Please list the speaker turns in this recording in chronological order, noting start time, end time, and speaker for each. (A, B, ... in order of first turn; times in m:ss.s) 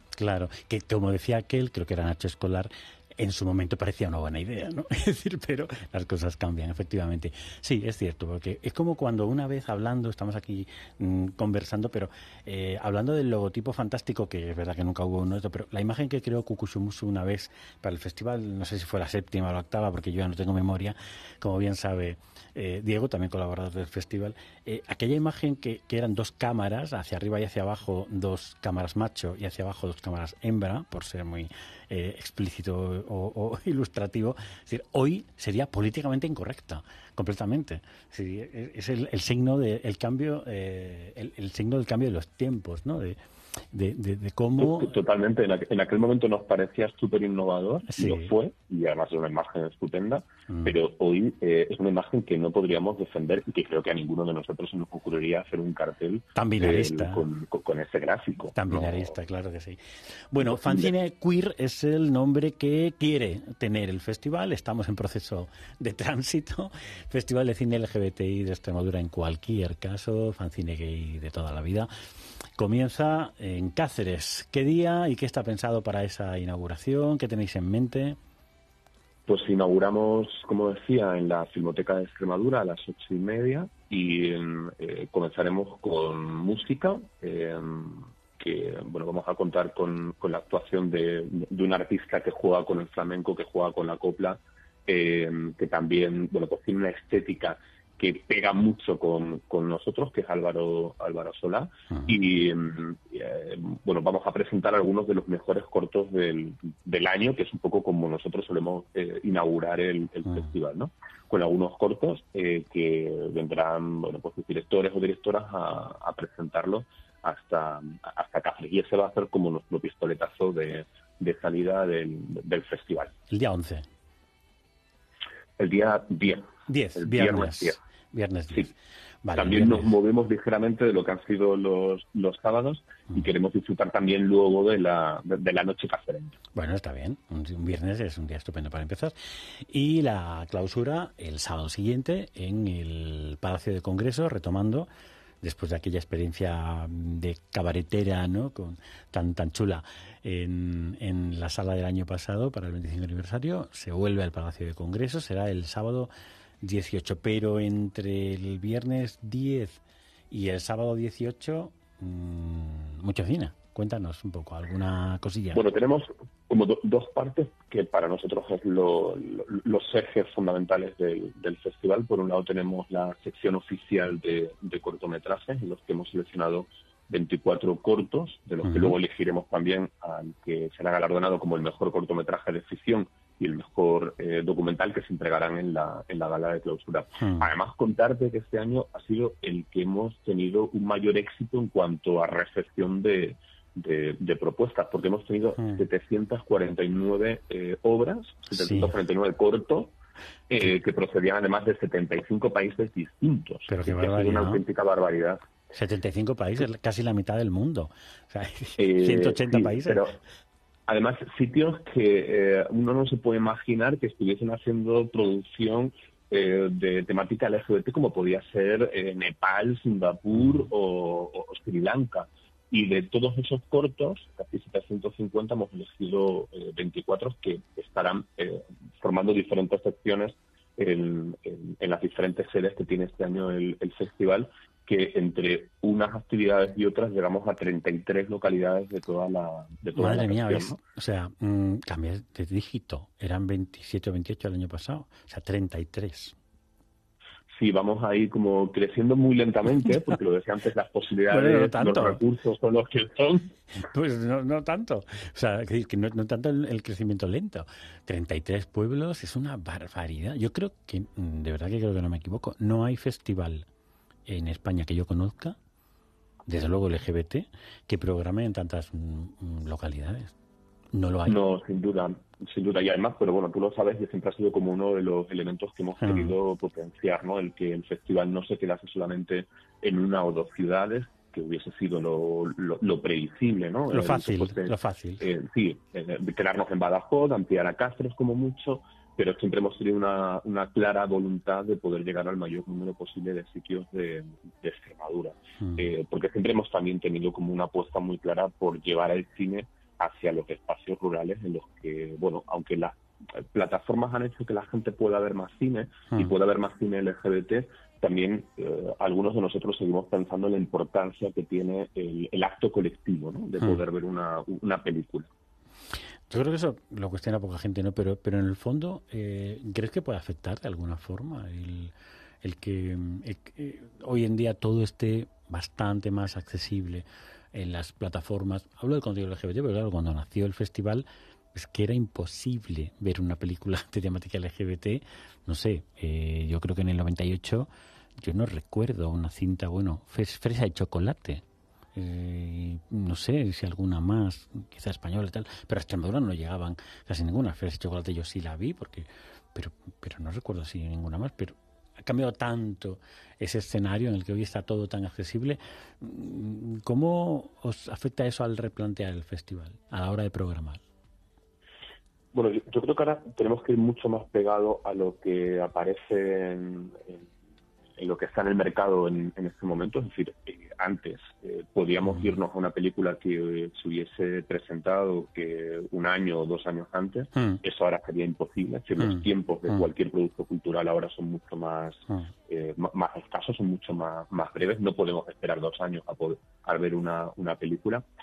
0:00.2-0:43.2 A
0:43.7-0:44.9 A
0:44.6-0:59.1 B
0:47.9-0:48.3 A
0:50.5-0:50.8 A
0:56.4-0:57.2 A
0:58.5-0:59.8 A
1:00.3-1:11.9 A
1:00.4-1:00.9 B
1:12.6-1:18.2 A
1:19.3-2:03.1 B
2:03.3-2:03.8 A
2:05.6-2:07.8 B
2:06.7-2:09.9 A
2:09.4-2:16.3 B
2:16.5-2:19.1 A
2:19.7-2:24.9 A
2:25.4-2:45.6 A
2:45.5-3:19.9 B
2:58.6-2:58.9 A
3:07.2-3:07.5 A
3:18.5-3:18.9 A
3:20.5-3:25.4 B
3:23.7-3:24.6 A
3:25.7-3:30.0 A
3:28.8-3:30.2 B
3:30.9-4:00.8 B
3:59.9-4:06.3 A
4:07.6-4:13.5 B
4:11.3-4:12.2 A
4:13.8-4:23.6 A
4:24.3-4:25.6 A
4:26.5-4:30.3 A
4:30.9-4:31.4 A
4:31.3-5:15.3 B
4:36.0-4:36.3 A
4:43.9-4:45.2 A
5:16.3-5:41.4 A
5:42.0-6:00.8 A
6:02.3-6:07.2 B
6:08.0-6:28.0 B